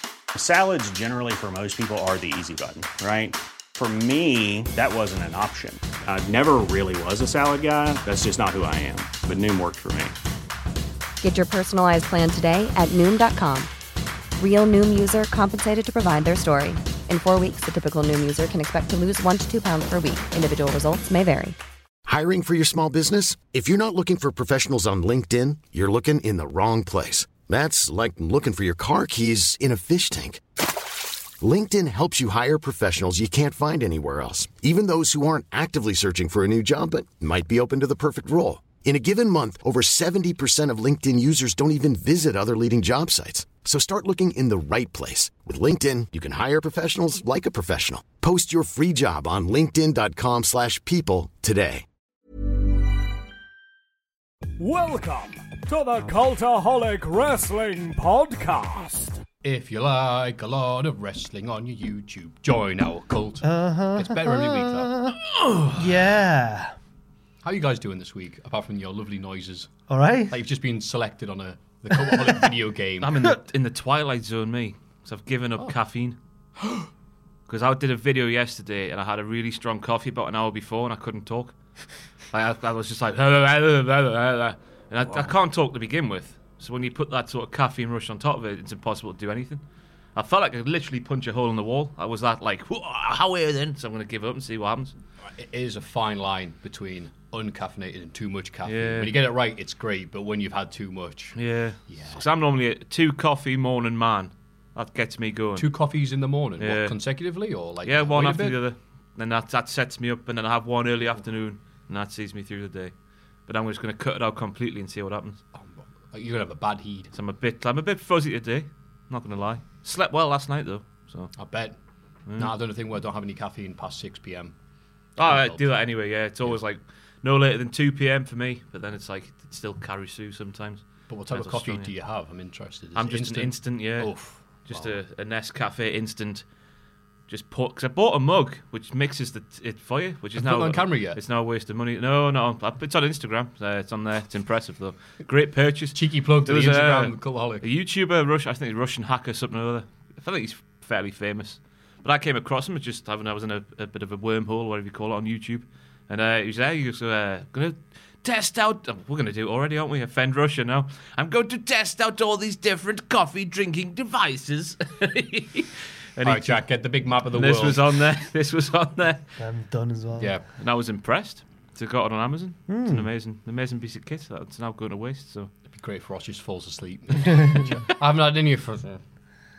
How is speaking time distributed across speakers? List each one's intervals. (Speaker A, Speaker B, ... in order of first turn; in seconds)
Speaker A: 0.3-10.2
Speaker B: 11.2-13.7, 14.4-21.5
Speaker C: 22.1-30.4, 31.4-51.8
Speaker D: 54.6-59.2
Speaker E: 59.4-64.9, 67.4-69.7, 70.3-73.2, 76.6-76.8, 95.3-101.3, 101.9-102.2, 105.5-108.6, 115.5-117.1, 121.3-121.8, 122.4-124.5, 125.2-125.7, 131.1-135.0, 140.3-141.2, 145.9-147.6, 166.2-167.8, 170.2-170.4, 175.7-179.0
Speaker F: 63.4-65.2, 65.7-66.7, 69.9-70.3, 169.4-170.3, 172.7-173.1
Speaker G: 73.0-76.2, 77.5-81.5, 82.3-89.6, 90.1-94.9, 98.6-99.2, 101.3-105.7, 106.6-106.9, 107.8-112.9, 113.5-115.4, 117.1-121.3, 122.3-122.5, 125.2-131.9, 132.9-134.1, 134.6-136.4, 137.3-166.6, 167.3-169.3, 170.6-175.5